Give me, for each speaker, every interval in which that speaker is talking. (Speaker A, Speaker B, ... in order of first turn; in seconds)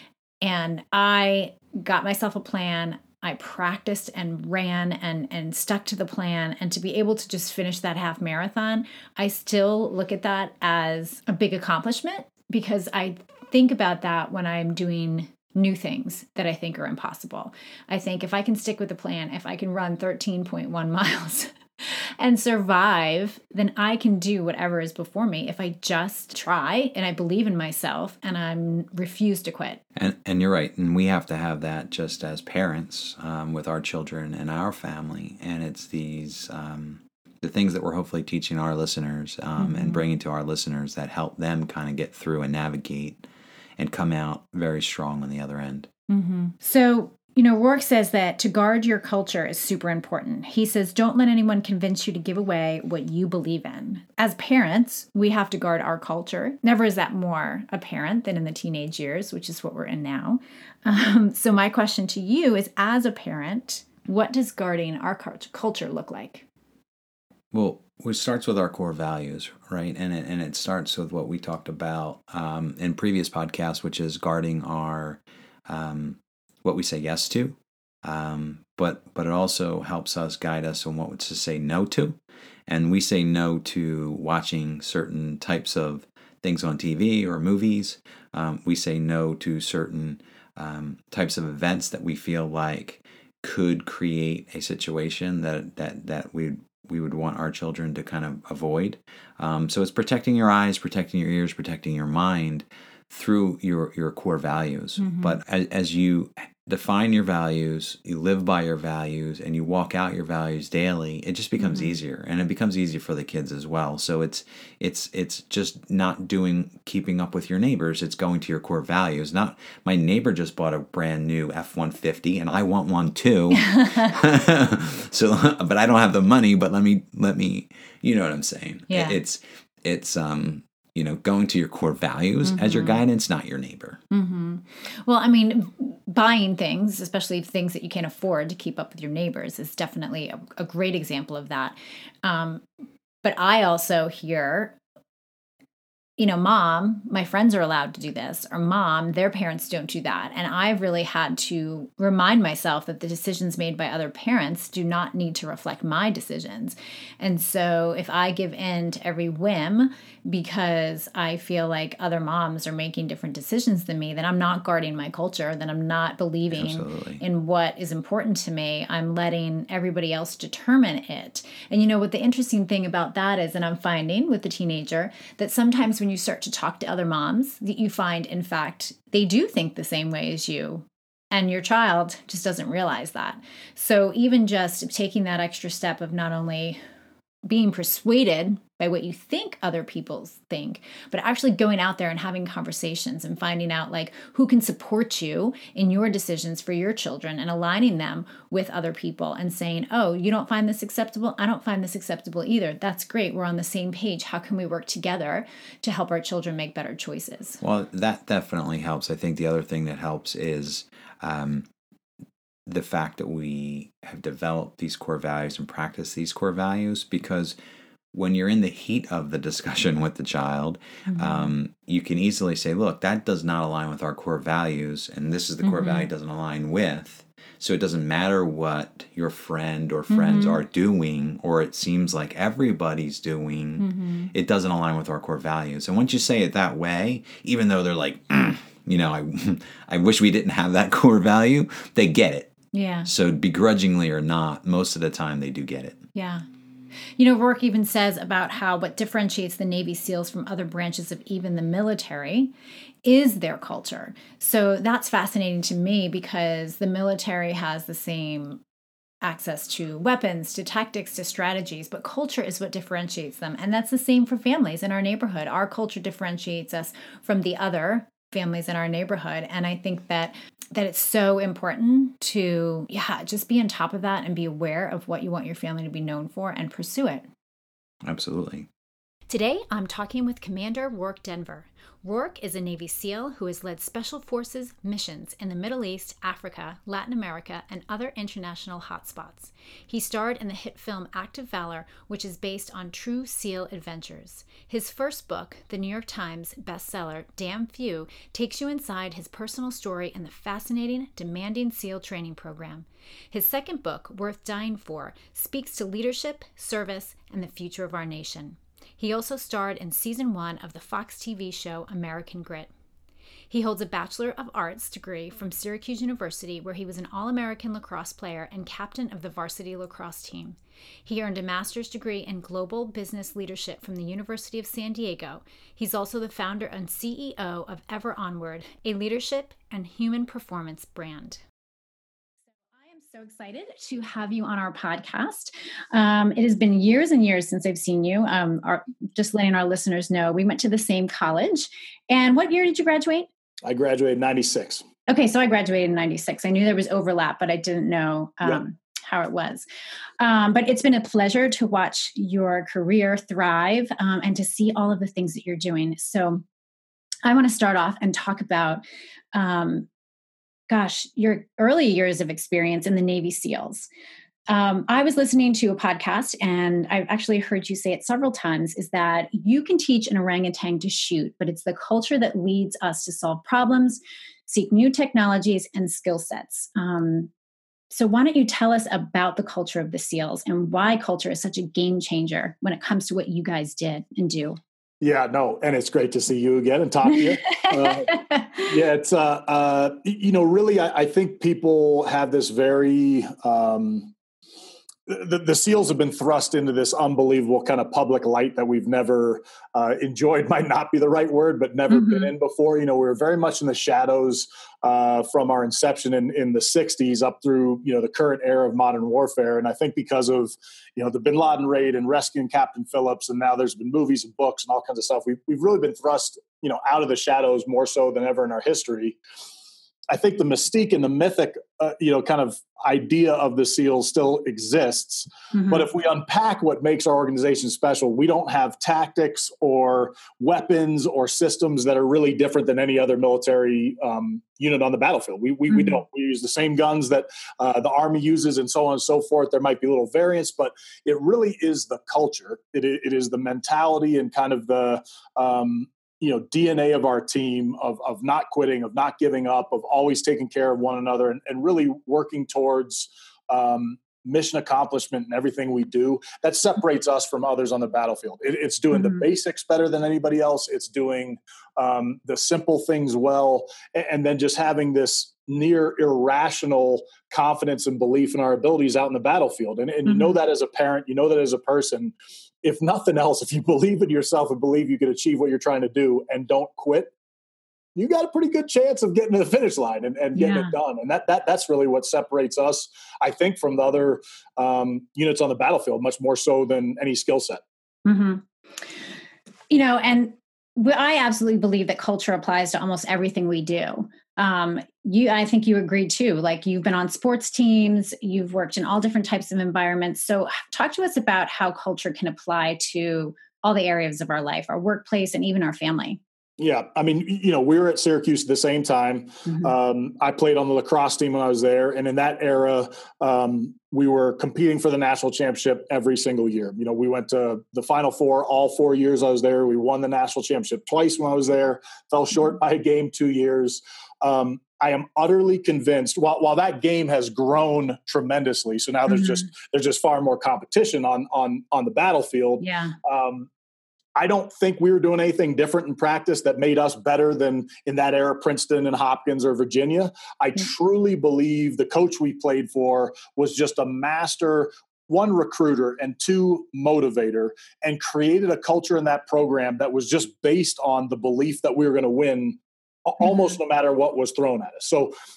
Speaker A: 0.4-29.8, 39.6-40.0, 46.1-66.5, 105.0-105.4, 111.6-112.0, 123.6-124.1, 128.9-129.2, 132.4-133.0, 134.1-142.7, 143.2-144.8, 146.2-186.8, 187.5-207.6, 221.1-221.5, 225.6-226.1, 230.1-230.6, 233.8-234.3, 242.7-243.1, 246.2-246.4, 247.2-252.5, 253.0-258.6, 259.2-277.3, 279.3-312.7, 313.5-331.4, 332.7-343.3, 345.1-349.7, 350.2-356.4, 357.2-358.8, 359.3-359.9, 360.7-363.9, 364.5-377.3, 377.9-384.6, 387.1-388.7, 401.9-402.3, 425.5-425.9, 435.7-436.0, 458.9-459.2, 470.1-470.4, 480.3-480.7, 488.1-488.4, 489.7-506.2, 509.5-509.7, 529.1-529.5, 532.6-533.0, 553.2-553.5
Speaker B: 30.0-43.2, 43.8-45.9, 67.5-134.0, 166.5-167.2, 207.6-211.7, 212.7-217.6, 218.1-242.5, 243.1-246.0, 278.0-278.7
Speaker C: 343.6-344.8, 385.0-394.1, 395.1-419.2, 420.1-477.1, 478.0-487.6, 506.6-533.5, 534.2-555.1